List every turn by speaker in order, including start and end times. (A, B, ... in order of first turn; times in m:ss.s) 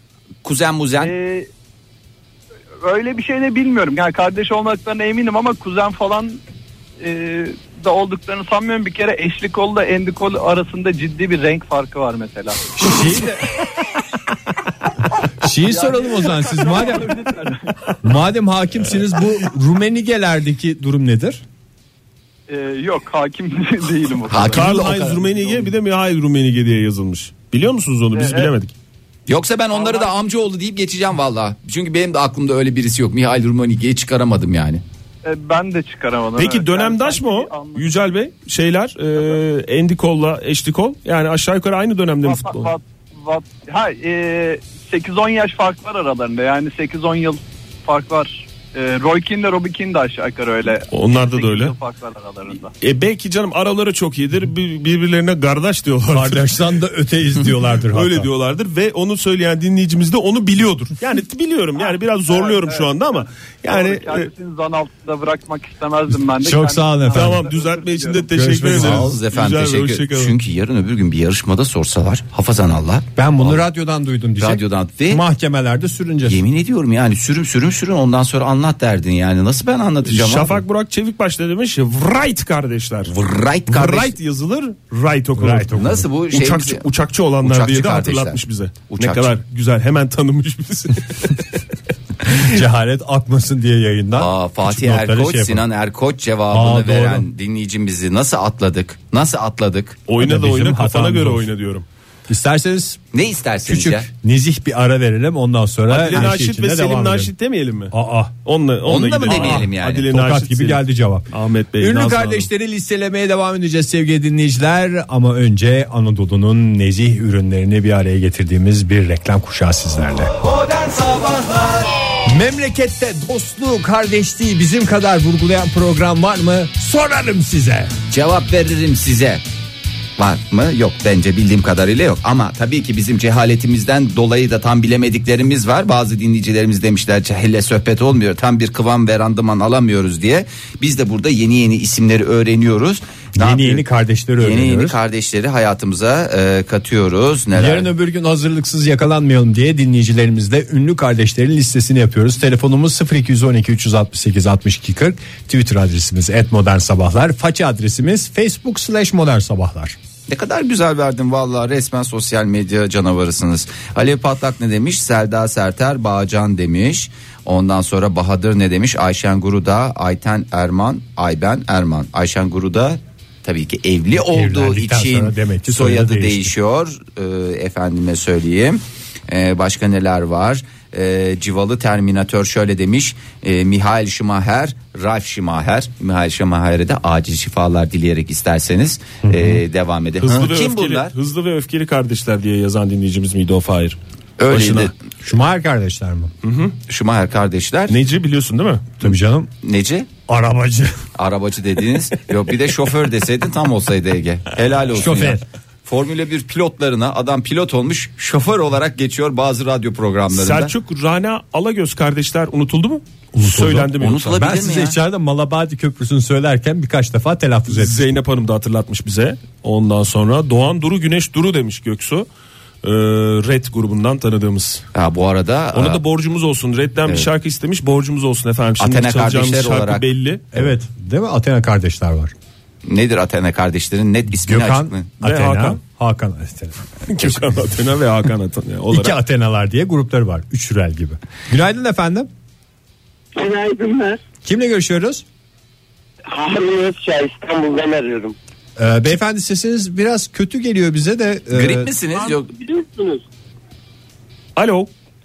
0:00.4-0:01.1 A
0:01.0-0:01.5 B
0:02.8-0:06.4 B
0:07.0-0:12.7 B
0:12.7-0:13.5 C
0:15.4-0:17.1 C
0:15.6-0:18.0 B
0:18.0-0:21.4 C
0:22.5-0:25.7 B
0:24.3-0:25.1 A
0:24.5-0:28.7 D
0:24.8-0:25.2 C
0:28.1-0:28.5 B
0:29.3-0:34.8 A
0:29.7-0:30.2 B
0:35.2-0:37.9 B
0:36.4-0:42.7 D
0:42.2-0:52.7 B
0:50.9-0:51.7 D
0:52.8-0:56.6 D
0:56.1-0:58.3 C
0:57.9-1:04.3 D
1:01.8-1:08.6 B
1:06.4-1:07.4 C
1:07.1-1:10.4 D
1:08.3-1:09.1 C
1:08.6-1:13.6 A
1:13.2-1:16.4 C
1:14.4-1:15.2 A
1:16.2-1:20.6 A
1:20.0-1:23.1 D
1:23.0-1:24.1 A
1:23.7-1:31.6 D
1:25.4-1:26.1 C
1:25.7-1:26.8 A
1:27.4-1:29.3 A
1:32.3-1:35.6 C
1:34.1-1:40.0 A
1:36.5-1:37.3 C
1:40.1-1:41.8 D
1:40.2-1:41.5 C
1:42.3-1:43.0 C
1:43.1-1:44.1 A
1:43.6-1:47.3 C
1:45.9-1:52.5 D
1:47.9-1:48.4 C
1:48.8-1:50.1 A
1:49.3-2:00.3 C
2:00.5-2:01.8 A
2:02.2-2:07.9 C
2:08.1-2:09.4 A
2:10.2-2:23.8 A
2:23.4-2:25.0 C
2:24.4-2:27.9 A
2:27.5-2:40.0 C
2:40.3-3:11.1 A
2:54.1-2:56.5 C
3:09.2-3:09.6 C
3:10.2-3:14.0 D
3:14.4-3:14.9 A
3:14.5-3:14.9 D
3:15.2-3:16.3 C
3:16.4-3:16.8 D
3:16.9-3:18.0 A
3:17.9-3:18.9 D
3:19.0-3:19.5 C
3:19.6-3:20.1 A
3:20.3-3:21.0 C
3:21.2-3:30.7 A
3:24.9-3:25.4 C
3:30.3-3:34.4 D
3:33.3-3:38.1 C
3:34.0-3:35.0 A
3:37.7-3:42.3 D
3:42.8-3:44.8 D
3:44.9-3:46.0 A
3:45.7-3:50.7 D
3:48.8-3:50.0 A
3:50.5-3:52.3 C
3:52.8-3:55.1 A
3:54.4-3:57.6 C
3:55.2-3:55.8 D
3:57.1-3:59.2 D
3:58.9-4:02.3 C
4:03.3-4:04.2 E
4:04.4-4:05.2 C
4:06.3-4:08.4 E
4:08.8-4:11.9 C
4:11.5-4:12.5 A
4:12.2-4:13.2 E
4:14.6-4:14.9 D